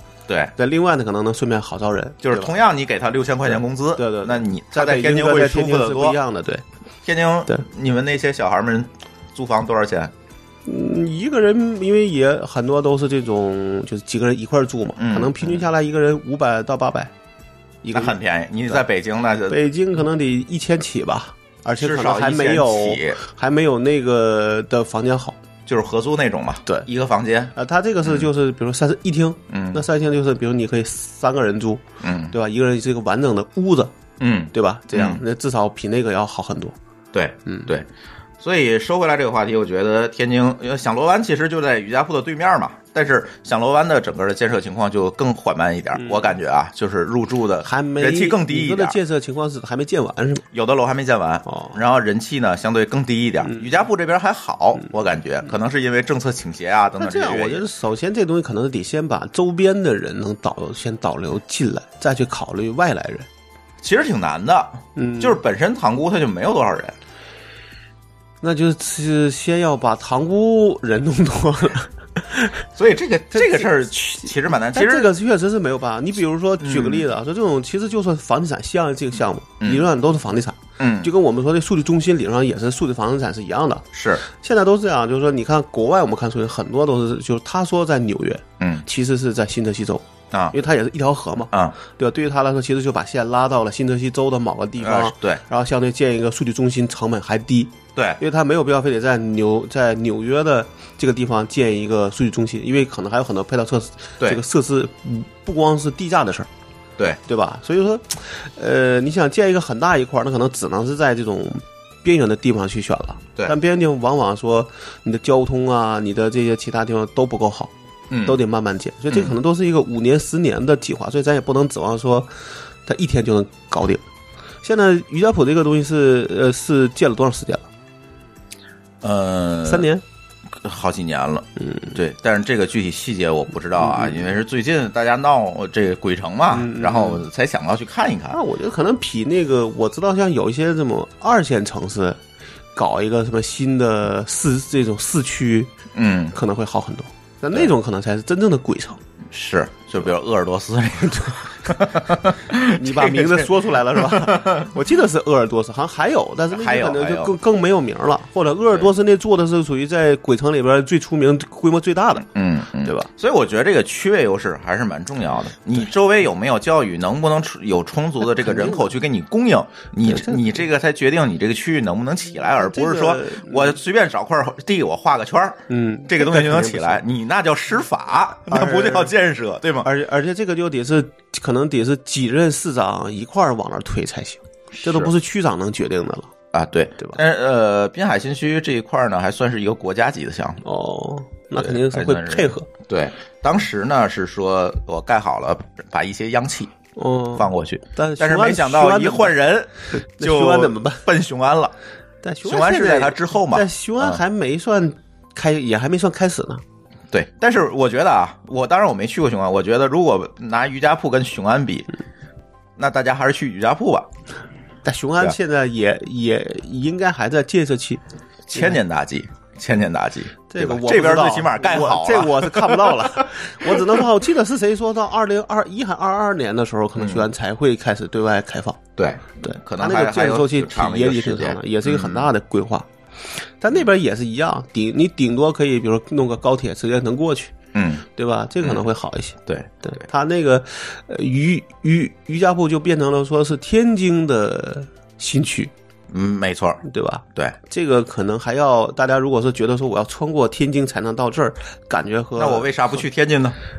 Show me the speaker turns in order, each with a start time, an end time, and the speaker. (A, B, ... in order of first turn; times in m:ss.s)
0:00.3-0:00.5 A
0:00.6-0:02.5 B
0:02.2-0:06.2 A
0:03.4-0:06.6 B
0:07.0-0:10.1 A
0:10.6-0:17.1 B
0:15.0-0:15.7 A
0:17.8-0:18.2 B
0:17.9-0:19.6 A
0:19.5-0:25.4 B
0:21.8-0:23.2 A
0:25.6-0:28.3 A
0:27.5-0:33.9 B
0:29.5-0:29.8 A
0:32.0-0:32.3 A
0:34.2-0:35.2 A
0:34.5-0:36.8 B
0:37.1-0:37.9 A
0:38.4-0:49.0 A
0:46.0-0:46.2 B
0:47.6-0:50.4 B
0:50.5-0:57.6 A
0:51.4-0:51.8 B
0:57.0-1:03.3 B
1:03.8-1:07.0 A
1:05.0-1:05.4 B
1:08.4-1:12.6 B
1:12.8-1:15.1 A
1:13.3-1:13.7 B
1:14.7-1:46.5 B
1:16.6-1:17.0 A
1:19.6-1:19.9 A
1:20.8-1:21.1 A
1:23.9-1:24.2 A
1:28.6-1:28.8 A
1:34.8-1:35.4 A
1:47.2-1:57.7 B
1:58.1-1:58.4 A
1:58.2-2:04.0 B
1:59.1-1:59.4 A
2:04.6-2:07.7 B
2:09.0-2:09.9 A
2:09.6-2:10.0 B
2:10.5-2:18.4 A
2:11.6-2:11.9 B
2:13.8-2:14.3 B
2:16.5-2:17.2 B
2:18.3-2:22.2 B
2:22.7-2:25.7 B
2:25.9-2:26.3 A
2:26.3-2:29.0 B
2:29.3-2:34.7 A
2:31.0-2:31.4 B
2:32.6-2:42.3 B
2:36.5-2:37.3 A
2:42.2-2:59.9 A
2:42.8-2:43.1 B
2:48.4-2:48.9 B
2:50.0-2:50.6 B
2:52.5-2:53.8 B
2:55.7-2:57.0 B
2:58.5-2:59.1 B
2:59.8-3:06.3 B
3:04.7-3:05.1 A
3:06.5-3:10.6 A
3:10.6-3:12.7 B
3:11.6-3:16.7 A
3:17.0-3:19.4 B
3:17.3-3:21.7 A
3:19.9-3:21.0 B
3:22.2-3:26.6 B
3:22.4-3:24.2 A
3:27.1-3:31.9 A
3:32.8-3:34.1 A
3:34.8-3:38.0 B
3:38.5-3:44.0 A
3:40.5-3:48.8 B
3:47.0-3:47.3 A
3:49.0-3:52.3 A
3:49.4-3:52.9 B
3:53.6-3:57.5 B
3:57.7-3:58.0 A
3:58.1-4:05.7 B
3:59.4-3:59.7 A
4:06.1-4:06.8 A
4:06.8-4:12.7 B
4:12.4-4:13.6 A